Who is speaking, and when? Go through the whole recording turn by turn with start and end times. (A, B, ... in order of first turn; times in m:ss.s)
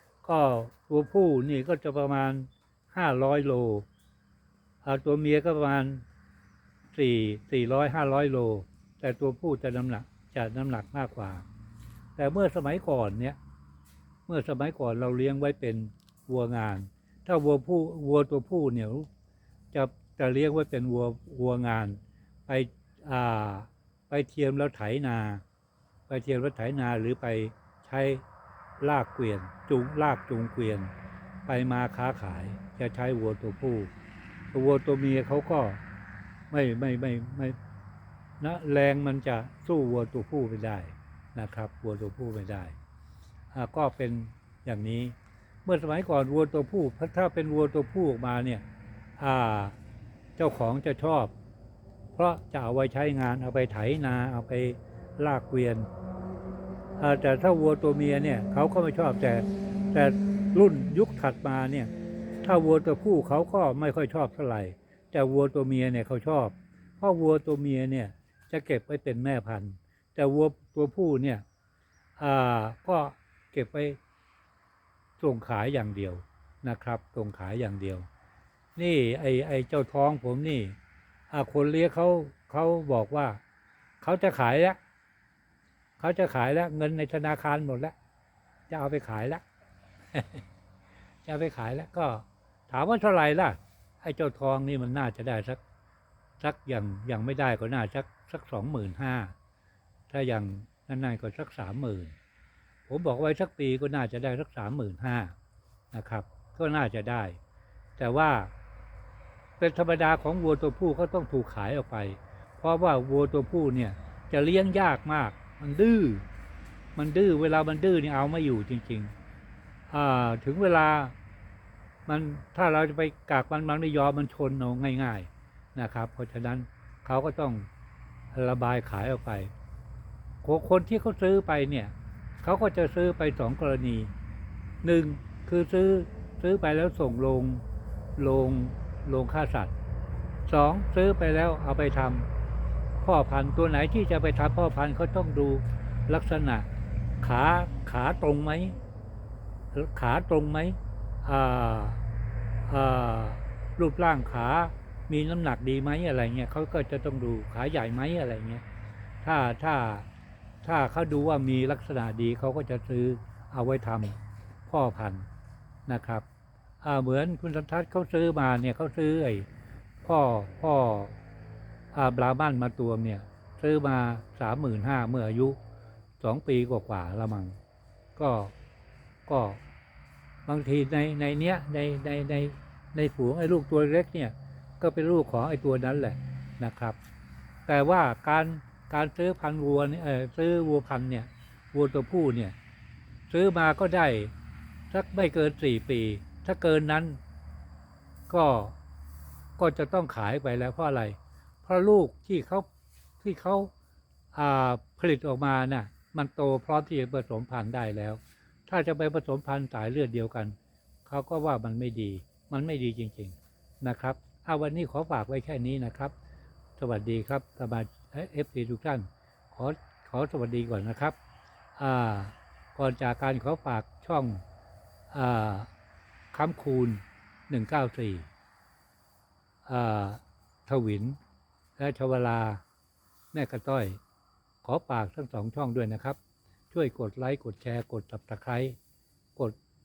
0:00.2-0:03.9 A
0:04.8-0:06.0 A
0:06.9-0:11.4 A
0:12.2-0:13.4 A
0:14.3-0:19.1 A
0:19.7-0:25.4 A
0:26.1-0:28.2 A
0:28.8-0:30.9 A
0:31.5-0:33.9 A
0:34.5-0:35.8 A
0:36.5-0:37.6 A
0:38.4-0:42.8 A
0:43.5-0:48.6 A
0:49.2-0:49.8 A
0:50.4-0:51.3 A
0:52.2-0:55.9 A
0:57.0-1:01.9 A
1:02.4-1:11.4 A
1:12.2-1:14.0 A
1:15.2-1:18.1 A
1:18.8-1:20.8 A
1:21.3-1:23.4 A
1:24.0-1:24.8 A
1:26.0-1:28.0 A
1:28.7-1:29.4 A
1:30.1-1:30.4 A
1:31.2-1:35.6 A
1:36.4-1:39.3 A
1:40.1-1:42.2 A
1:42.9-1:45.4 A
1:45.9-1:47.4 A
1:48.0-1:48.5 A
1:49.6-1:56.2 A
1:57.0-1:59.1 A
1:59.9-2:01.2 A
2:02.1-2:07.7 A
2:08.3-2:09.5 A
2:10.4-2:14.1 A
2:14.8-2:17.6 A
2:18.2-2:19.7 A
2:20.5-2:22.3 A
2:23.0-2:26.7 A
2:27.2-2:28.8 A
2:29.7-2:32.0 A
2:32.7-2:38.6 A
2:39.2-2:40.1 A
2:40.6-2:45.3 A
2:45.9-2:46.2 A
2:46.8-2:49.5 A
2:50.0-2:51.2 A
2:51.9-2:55.6 A
2:56.2-2:57.6 A
2:58.2-2:58.5 A
2:59.3-2:59.6 A
3:00.5-3:07.0 A
3:07.7-3:12.6 A
3:13.3-3:14.3 A
3:14.9-3:17.2 A
3:18.3-3:18.8 A
3:19.6-3:22.7 A
3:23.2-3:23.7 A
3:24.3-3:30.6 A
3:31.1-3:36.1 A
3:36.8-3:41.2 A
3:41.8-3:44.4 A
3:45.1-3:45.7 A
3:46.3-3:48.3 A
3:49.6-3:51.2 A
3:51.8-3:52.6 A
3:53.3-3:54.0 A
3:54.6-3:56.2 A
3:56.7-3:58.8 A